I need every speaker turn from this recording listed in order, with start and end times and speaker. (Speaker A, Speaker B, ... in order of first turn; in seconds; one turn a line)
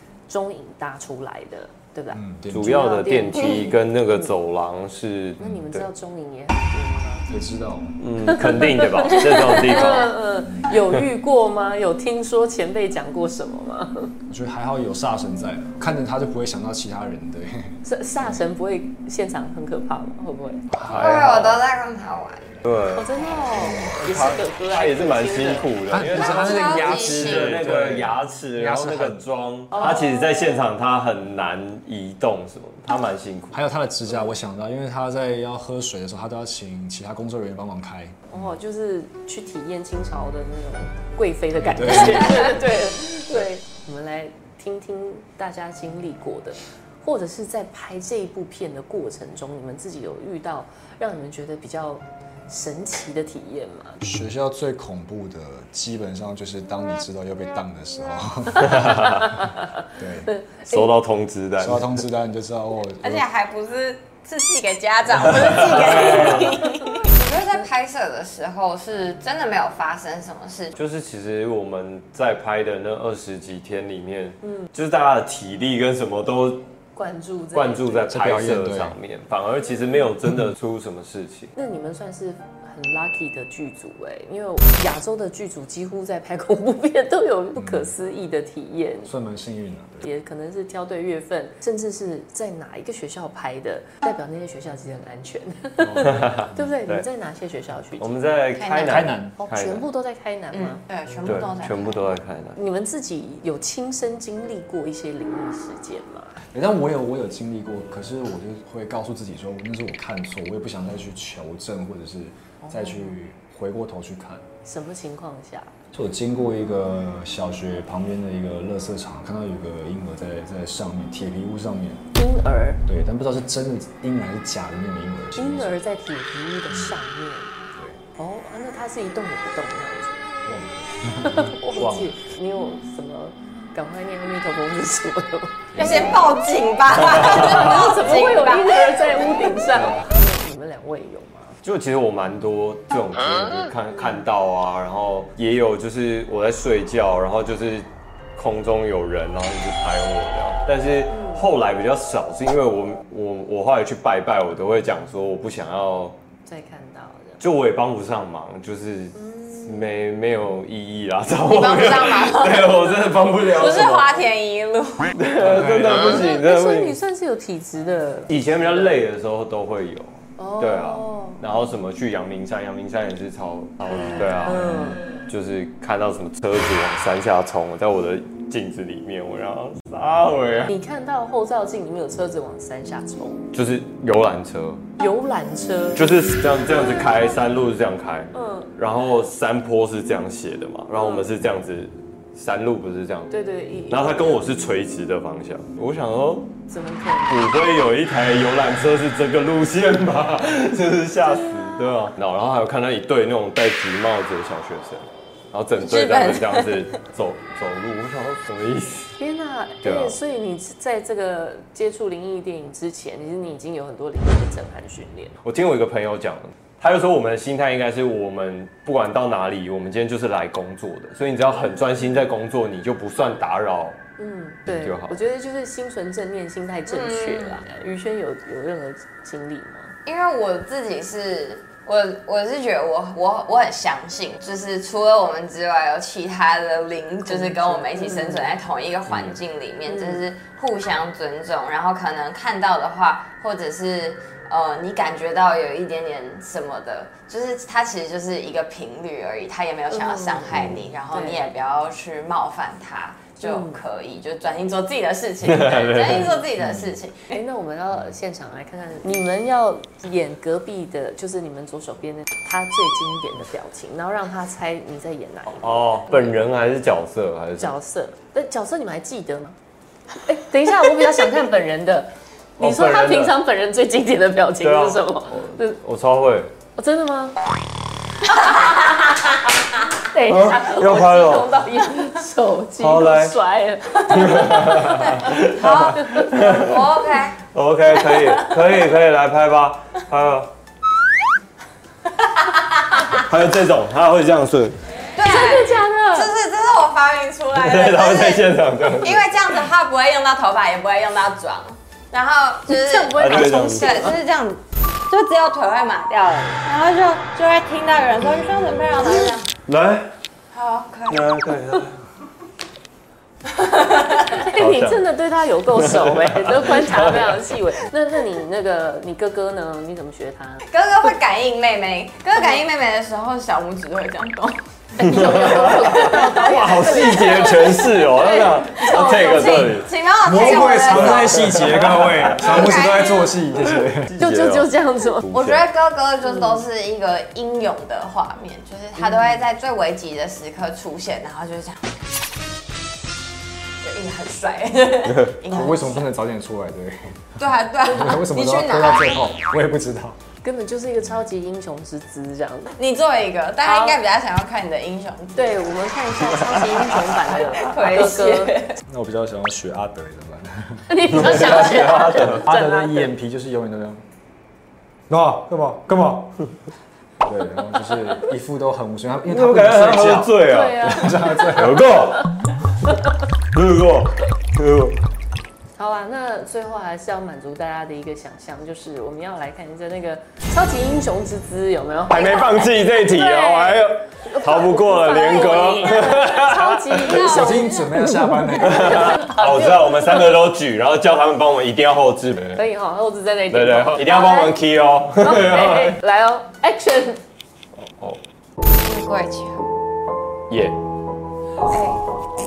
Speaker A: 0.3-3.8
Speaker B: 2.1-2.7
Speaker C: 2.5-5.9
Speaker A: 5.4-7.3
Speaker B: 7.3-8.0
Speaker C: 8.0-11.0
Speaker A: 8.2-14.2
Speaker B: 10.4-10.7
Speaker B: 14.3-17.8
Speaker A: 17.8-20.8
Speaker B: 20.7-21.2
Speaker C: 20.8-21.6
Speaker D: 20.9-22.6
Speaker C: 22.6-33.6
Speaker A: 22.9-25.8
Speaker B: 25.9-29.2
Speaker D: 26.1-27.6
Speaker A: 29.7-30.6
Speaker B: 33.5-38.5
Speaker A: 38.3-54.0
Speaker B: 41.6-42.6
Speaker B: 54.0-59.1
Speaker C: 58.6-59.3
Speaker A: 59.2-59.7
Speaker B: 60.0-60.3
Speaker A: 60.2-60.9
Speaker C: 60.7-62.0
Speaker B: 61.6-63.3
Speaker D: 63.0-70.8
Speaker C: 65.4-66.5
Speaker C: 70.7-76.7
Speaker A: 74.4-74.7
Speaker A: 76.9-78.2
Speaker C: 77.5-81.5
Speaker B: 78.1-79.0
Speaker A: 81.5-89.1
Speaker B: 87.6-88.0
Speaker B: 89.1-90.1
Speaker A: 90.0-98.1
Speaker B: 95.8-96.2
Speaker C: 96.0-97.1
Speaker C: 98.0-99.9
Speaker D: 98.5-99.2
Speaker B: 98.9-99.4
Speaker A: 99.4-100.8
Speaker D: 100.5-102.2
Speaker C: 101.3-102.6
Speaker A: 102.5-106.4
Speaker B: 106.5-114.5
Speaker A: 112.6-113.2
Speaker A: 114.6-115.7
Speaker B: 115.9-122.1
Speaker A: 122.2-122.8
Speaker B: 122.8-125.7
Speaker A: 125.3-127.6
Speaker B: 126.7-127.0
Speaker B: 127.8-128.0
Speaker A: 128.2-130.3
Speaker B: 130.5-131.4
Speaker A: 131.3-135.8
Speaker C: 131.7-132.2
Speaker C: 135.8-136.2
Speaker D: 135.8-139.8
Speaker B: 135.8-136.3
Speaker C: 137.2-137.8
Speaker A: 137.3-141.6
Speaker C: 141.6-156.2
Speaker A: 151.1-151.5
Speaker A: 156.5-157.4
Speaker C: 157.4-164.2
Speaker A: 159.2-159.9
Speaker D: 161.4-165.1
Speaker C: 165.1-167.0
Speaker B: 165.4-166.0
Speaker A: 165.9-169.0
Speaker C: 168.3-180.7
Speaker A: 170.4-171.4
Speaker A: 174.4-175.0
Speaker A: 180.7-183.5
Speaker C: 183.5-184.8
Speaker A: 185.0-187.1
Speaker C: 185.9-193.3
Speaker A: 188.3-188.8
Speaker A: 190.9-191.3
Speaker A: 193.3-194.5
Speaker C: 193.9-196.6
Speaker A: 196.7-197.6
Speaker C: 197.3-209.2
Speaker D: 205.8-206.8
Speaker A: 209.2-215.3
Speaker C: 209.8-210.2
Speaker C: 215.4-224.0
Speaker A: 224.2-230.0
Speaker C: 224.7-225.2
Speaker D: 226.9-227.7
Speaker D: 230.1-257.4
Speaker A: 237.3-238.6
Speaker C: 239.1-239.4
Speaker A: 239.9-240.2
Speaker A: 249.9-251.5
Speaker C: 250.5-250.8
Speaker A: 253.4-253.8
Speaker C: 255.4-256.4
Speaker A: 257.3-266.3
Speaker C: 265.5-267.8
Speaker A: 267.6-269.6
Speaker A: 270.3-275.8
Speaker C: 272.6-273.4
Speaker C: 274.6-276.5
Speaker A: 276.8-277.4
Speaker A: 280.1-284.8
Speaker C: 280.3-281.7
Speaker C: 282.8-283.4
Speaker C: 284.0-286.9
Speaker D: 284.2-287.4
Speaker C: 287.5-290.5
Speaker D: 287.9-288.6
Speaker D: 292.1-293.1
Speaker C: 293.1-294.8
Speaker D: 295.2-309.5
Speaker A: 295.2-296.3
Speaker C: 297.6-299.3
Speaker A: 302.7-304.2
Speaker C: 303.2-304.1
Speaker C: 309.7-310.1
Speaker D: 310.5-311.3
Speaker C: 311.1-312.0
Speaker D: 313.6-314.4
Speaker A: 314.3-320.6
Speaker C: 314.6-315.1
Speaker C: 315.7-317.4
Speaker D: 320.7-327.2
Speaker A: 325.0-329.7
Speaker C: 325.0-329.9
Speaker D: 328.6-333.4
Speaker B: 330.2-334.1
Speaker C: 330.4-332.8
Speaker C: 333.6-335.6
Speaker A: 334.2-335.2
Speaker D: 335.3-341.9
Speaker A: 336.2-336.6
Speaker A: 339.0-339.4
Speaker D: 343.8-346.1
Speaker B: 345.5-350.2
Speaker D: 347.4-349.3
Speaker A: 350.4-352.8
Speaker D: 352.8-355.7
Speaker A: 353.6-354.0
Speaker A: 355.4-358.6
Speaker C: 356.2-357.1
Speaker D: 356.7-358.8
Speaker B: 358.9-361.0
Speaker A: 360.9-363.1
Speaker C: 361.1-362.5
Speaker B: 362.4-364.0
Speaker B: 365.1-366.4
Speaker B: 367.2-371.9
Speaker C: 369.3-372.4
Speaker A: 370.4-372.2
Speaker C: 373.5-375.1
Speaker A: 375.8-390.2
Speaker C: 382.1-387.3
Speaker D: 387.0-387.8
Speaker B: 387.1-389.2
Speaker C: 388.6-392.7
Speaker A: 392.6-394.6
Speaker C: 393.5-396.0
Speaker A: 395.2-397.2
Speaker C: 397.8-398.2
Speaker D: 398.7-399.7
Speaker C: 400.5-400.8
Speaker D: 401.7-402.0